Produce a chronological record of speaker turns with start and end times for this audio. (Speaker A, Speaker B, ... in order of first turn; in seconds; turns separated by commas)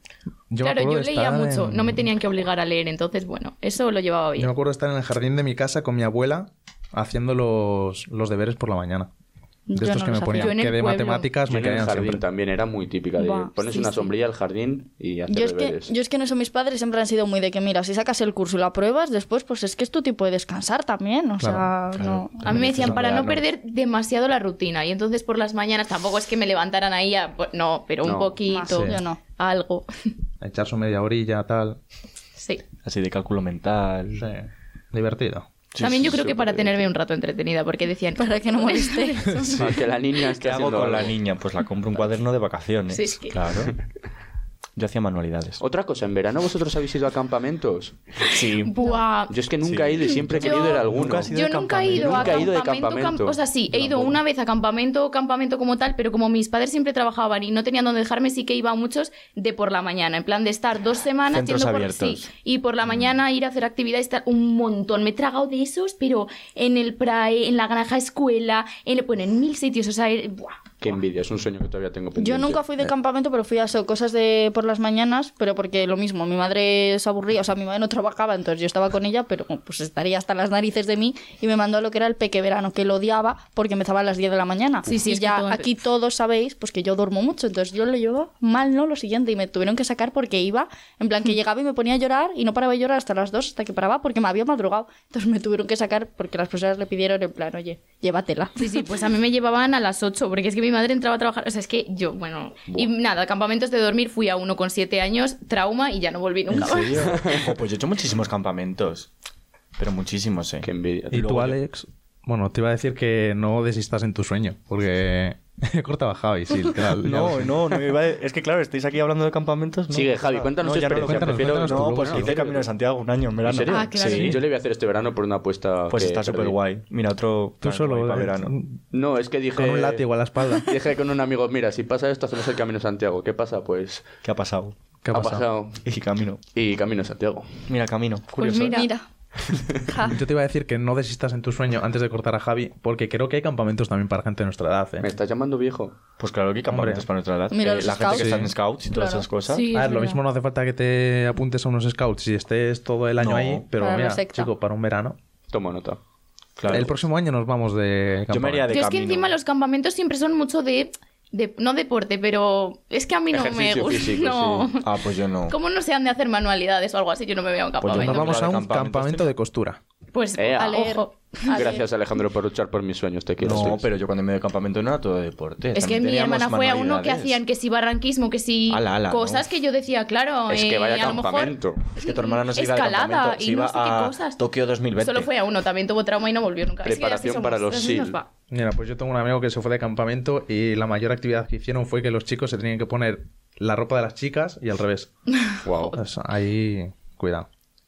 Speaker A: 0.5-2.0, Speaker B: 0.6-4.5, Speaker A: 4.4-9.1, Speaker C: 9.7-10.5, Speaker A: 9.8-12.2, Speaker B: 10.3-11.3, Speaker D: 11.4-15.9, Speaker C: 13.2-14.1, Speaker C: 15.3-22.5, Speaker A: 21.4-21.7, Speaker E: 22.0-23.4, Speaker B: 22.4-30.1, Speaker A: 22.4-23.4, Speaker D: 28.0-28.4, Speaker C: 28.5-29.2, Speaker A: 28.7-29.0, Speaker A: 30.4-31.8, Speaker B: 32.4-32.6, Speaker E: 32.8-34.3, Speaker A: 34.2-35.5, Speaker E: 35.7-36.6, Speaker B: 35.8-39.6, Speaker D: 36.0-36.9, Speaker C: 38.2-39.6, Speaker D: 39.5-41.1, Speaker E: 40.4-43.7, Speaker B: 42.9-43.4, Speaker E: 44.8-45.6, Speaker D: 45.6-48.7, Speaker B: 48.6-49.3, Speaker D: 49.3-51.3, Speaker E: 49.6-52.5, Speaker B: 50.4-70.6, Speaker D: 51.9-54.1, Speaker E: 61.3-62.3, Speaker D: 70.8-72.7, Speaker C: 72.2-98.7, Speaker B: 84.8-85.7, Speaker B: 98.6-107.1, Speaker E: 106.5-109.1, Speaker E: 109.8-110.7, Speaker D: 110.6-111.5, Speaker A: 111.1-117.7, Speaker E: 111.2-111.5, Speaker E: 117.0-124.4, Speaker D: 119.9-122.7, Speaker A: 121.0-122.4, Speaker D: 123.4-126.5, Speaker B: 123.7-124.3, Speaker A: 124.0-124.3, Speaker E: 125.9-128.5, Speaker A: 127.6-128.8, Speaker D: 128.9-134.1, Speaker A: 129.5-130.7, Speaker E: 134.2-134.8, Speaker A: 135.0-135.4, Speaker D: 135.1-135.8, Speaker E: 135.8-136.4, Speaker D: 136.5-137.6, Speaker E: 137.7-138.8, Speaker B: 138.4-138.9, Speaker C: 138.7-139.1, Speaker C: 139.9-140.2, Speaker A: 140.1-145.1, Speaker D: 145.0-145.9, Speaker E: 146.2-149.7, Speaker A: 146.7-147.1, Speaker C: 147.5-148.4, Speaker D: 147.8-148.3, Speaker A: 148.1-148.5, Speaker C: 148.9-149.3, Speaker B: 149.5-150.2, Speaker A: 149.7-155.2, Speaker E: 153.2-153.7, Speaker C: 153.8-154.5, Speaker D: 155.5-156.0, Speaker E: 156.6-156.9, Speaker A: 156.7-158.8, Speaker E: 158.3-159.3, Speaker B: 158.7-164.8, Speaker D: 163.3-164.7, Speaker E: 164.8-165.6, Speaker B: 165.5-168.3, Speaker E: 167.8-169.3, Speaker A: 167.9-169.8, Speaker B: 170.1-171.8, Speaker D: 170.4-170.8, Speaker C: 170.6-171.8, Speaker D: 171.5-173.8, Speaker E: 173.4-177.4, Speaker B: 175.7-188.3, Speaker E: 178.7-179.4, Speaker D: 180.5-181.8, Speaker E: 181.9-185.3, Speaker D: 186.8-188.2, Speaker A: 188.5-195.1, Speaker B: 195.4-195.9, Speaker D: 195.6-196.0, Speaker A: 195.9-197.4